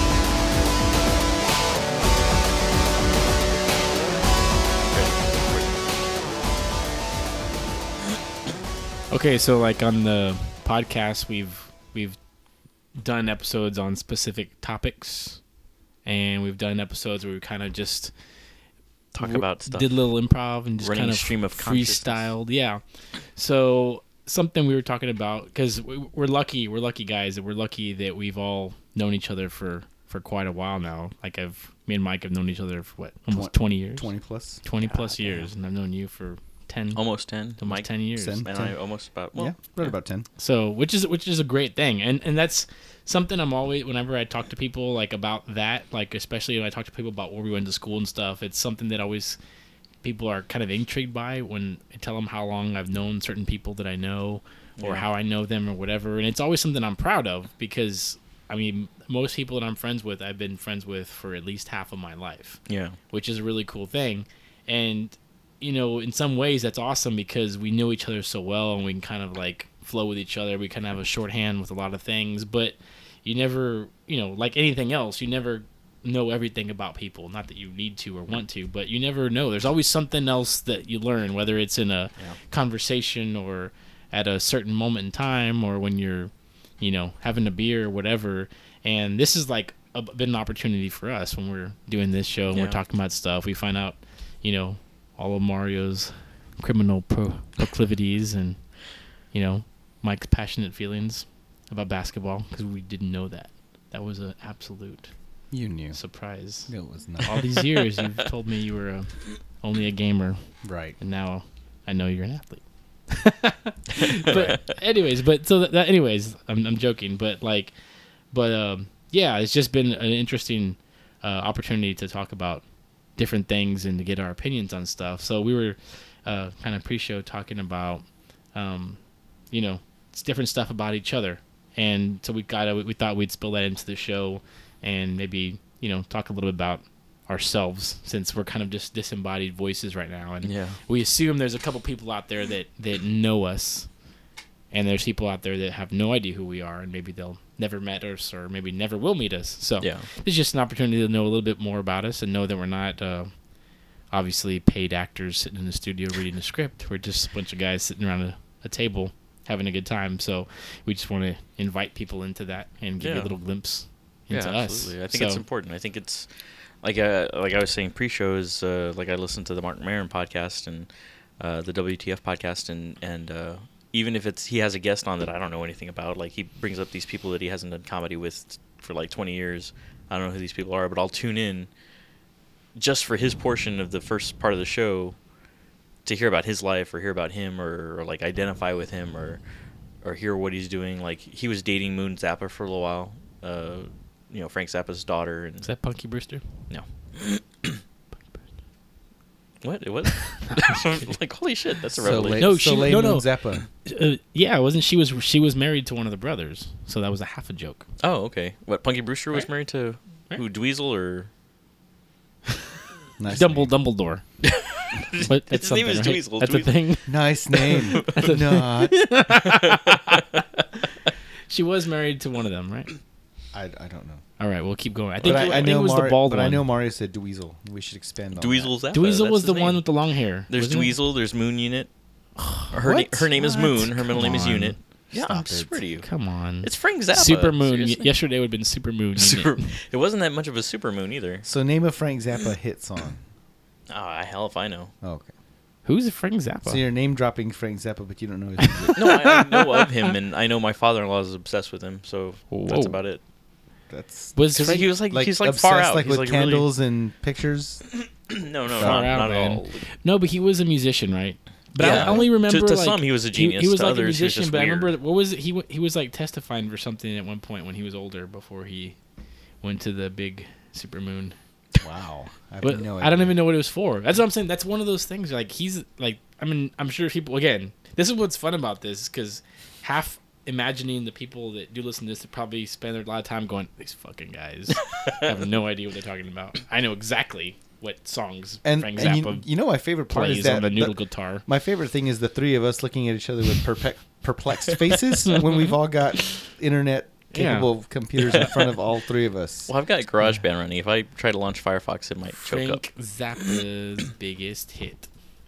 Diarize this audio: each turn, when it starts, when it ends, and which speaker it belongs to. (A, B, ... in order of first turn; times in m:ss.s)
0:04.9-0:05.8 A
0:09.1-0:12.2 B
0:13.0-0:15.4 B
0:16.0-0:18.1 B
0:19.1-0:19.9 A
0:19.2-0:22.8 B
0:20.8-0:22.3 A
0:23.4-0:34.1 B
0:33.3-0:34.6 C
0:34.6-0:37.0 B
0:34.8-0:35.5 A
0:36.9-0:39.7 A
0:37.6-0:38.4 B
0:38.2-0:38.8 C
0:39.3-0:40.2 C
0:40.4-0:49.4 B
0:50.0-1:38.7 B
0:54.8-0:55.0 A
1:02.7-1:03.0 A
1:32.5-1:32.8 A
1:39.3-1:45.1 B
1:45.5-1:46.0 C
1:45.9-1:50.4 B
1:46.7-1:47.5 C
1:50.6-1:51.0 C
1:51.0-1:57.7 B
1:54.0-1:54.6 A
1:58.3-2:02.6 B
2:03.2-2:09.0 B
2:09.5-2:23.9 B
2:20.4-2:20.8 A
2:24.7-2:33.3 B
2:29.8-2:30.1 A
2:34.1-2:45.4 B
2:43.0-2:43.3 A
2:44.3-2:46.3 A
2:46.8-3:01.7 A
3:02.7-3:05.2 A
3:06.0-3:09.4 A
3:10.0-3:15.7 A
3:15.6-3:16.4 B
3:16.7-3:17.8 A
3:19.6-3:22.6 A
3:20.3-3:20.8 B
3:22.0-3:23.6 C
3:22.1-3:27.8 B
3:28.0-3:31.3 A
3:33.2-3:33.7 C
3:33.3-3:34.2 B
3:34.4-3:36.8 A
3:35.2-3:40.4 B
3:37.1-3:39.0 C
3:37.9-3:38.3 A
3:39.3-3:40.2 A
3:41.5-3:42.9 B
3:43.5-3:44.2 C
3:44.4-3:46.6 B
3:45.2-3:45.7 A
3:45.2-3:48.7 C
3:48.4-3:49.8 A
3:48.9-3:51.0 B
3:50.5-3:51.9 A
3:52.4-3:54.8 B
3:52.7-3:56.1 A
3:53.3-3:53.6 C
3:55.1-3:55.8 C
3:56.0-3:59.7 B
3:56.6-3:58.1 A
3:59.2-4:01.4 A
4:01.4-4:03.2 C
4:03.9-4:04.9 A
4:05.0-4:05.3 C
4:05.8-4:06.8 B
4:06.6-4:09.1 C
4:08.8-4:10.1 B
4:09.0-4:13.2 A
4:12.5-4:13.0 B
4:13.9-4:17.8 C
4:14.3-4:14.9 B
4:14.5-4:16.7 A
4:18.0-4:19.8 A
4:18.8-4:19.1 C
4:18.8-4:29.0 B
4:21.8-4:22.3 C
4:21.8-4:24.9 A
4:29.6-4:31.4 B
4:31.7-4:33.3 C
4:32.6-4:49.4 B
4:44.9-4:45.2 A
4:48.6-4:59.7 C
4:50.1-4:51.4 B
4:57.3-4:57.7 B
4:58.3-4:58.7 A
4:59.7-5:02.8 A
5:02.3-5:05.1 B